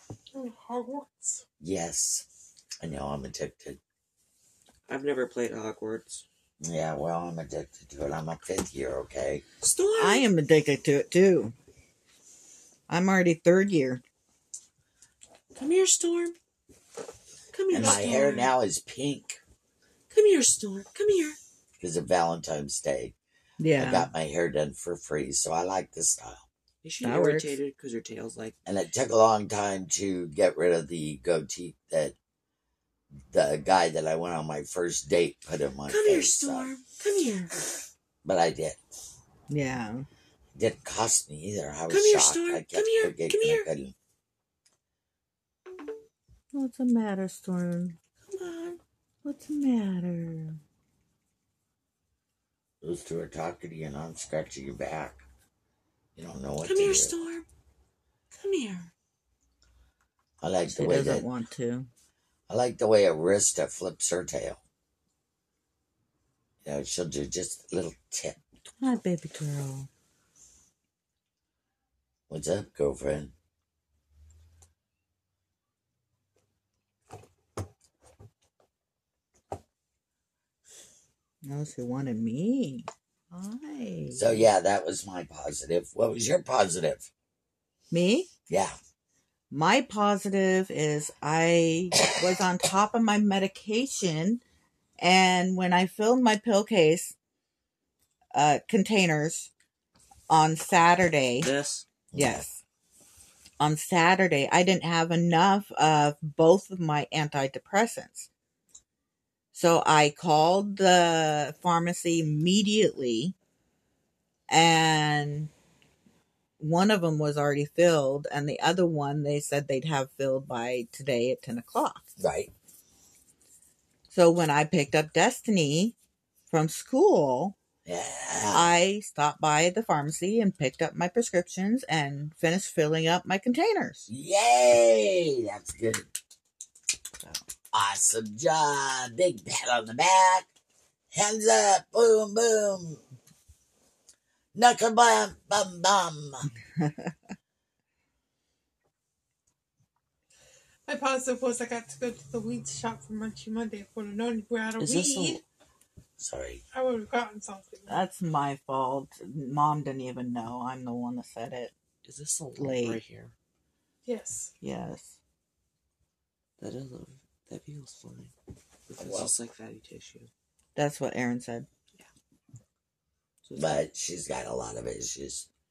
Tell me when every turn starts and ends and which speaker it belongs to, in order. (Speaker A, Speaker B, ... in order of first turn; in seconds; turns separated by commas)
Speaker A: 0.3-1.4, Speaker B: 1.6-2.2, Speaker B: 2.8-3.8, Speaker C: 4.9-6.2, Speaker B: 6.6-9.4, Speaker C: 9.6-10.2, Speaker D: 10.0-11.5, Speaker D: 12.9-14.0, Speaker C: 15.6-16.3, Speaker C: 17.5-18.5, Speaker B: 17.7-19.4, Speaker A: 17.7-18.4, Speaker C: 20.1-21.4, Speaker B: 21.8-23.1, Speaker D: 23.6-24.1, Speaker B: 23.7-26.4, Speaker C: 26.8-28.5, Speaker D: 27.0-27.6, Speaker B: 28.6-32.1, Speaker B: 33.3-36.7, Speaker C: 35.9-37.5, Speaker B: 38.2-38.8, Speaker D: 39.5-40.1, Speaker B: 40.5-43.9, Speaker C: 41.9-43.7, Speaker D: 46.5-48.0, Speaker C: 48.3-48.8, Speaker D: 49.2-50.6, Speaker B: 52.8-55.2, Speaker B: 56.1-57.1, Speaker C: 56.6-57.5, Speaker C: 58.3-58.9, Speaker B: 60.4-61.2, Speaker D: 60.7-61.9, Speaker B: 62.5-64.6, Speaker B: 66.6-68.4, Speaker D: 68.8-69.9, Speaker B: 72.3-73.3, Speaker D: 81.4-84.5, Speaker B: 84.1-87.1, Speaker D: 87.9-88.3, Speaker B: 88.5-88.8, Speaker D: 89.5-94.4, Speaker D: 95.0-97.1, Speaker D: 98.3-99.5, Speaker D: 100.3-101.5, Speaker C: 101.4-101.8, Speaker B: 102.1-102.4, Speaker D: 102.1-102.6, Speaker D: 103.6-108.3, Speaker D: 109.5-113.3, Speaker D: 114.5-115.5, Speaker D: 116.6-122.1, Speaker B: 122.2-122.5, Speaker D: 124.1-126.0, Speaker D: 126.5-127.5, Speaker B: 127.8-128.7, Speaker D: 128.5-134.1, Speaker B: 134.1-136.1, Speaker B: 137.7-140.5, Speaker B: 141.1-143.0, Speaker B: 144.5-146.5, Speaker D: 146.8-147.1, Speaker A: 150.8-155.4, Speaker C: 154.8-155.4, Speaker B: 156.2-156.6, Speaker A: 156.7-158.0, Speaker D: 157.9-161.7, Speaker C: 162.0-163.3, Speaker D: 162.6-163.0, Speaker A: 164.0-164.5, Speaker D: 164.6-165.2, Speaker C: 166.6-168.3, Speaker C: 168.9-170.3, Speaker B: 169.0-169.3, Speaker D: 170.8-171.7, Speaker C: 173.4-173.8, Speaker B: 173.6-175.5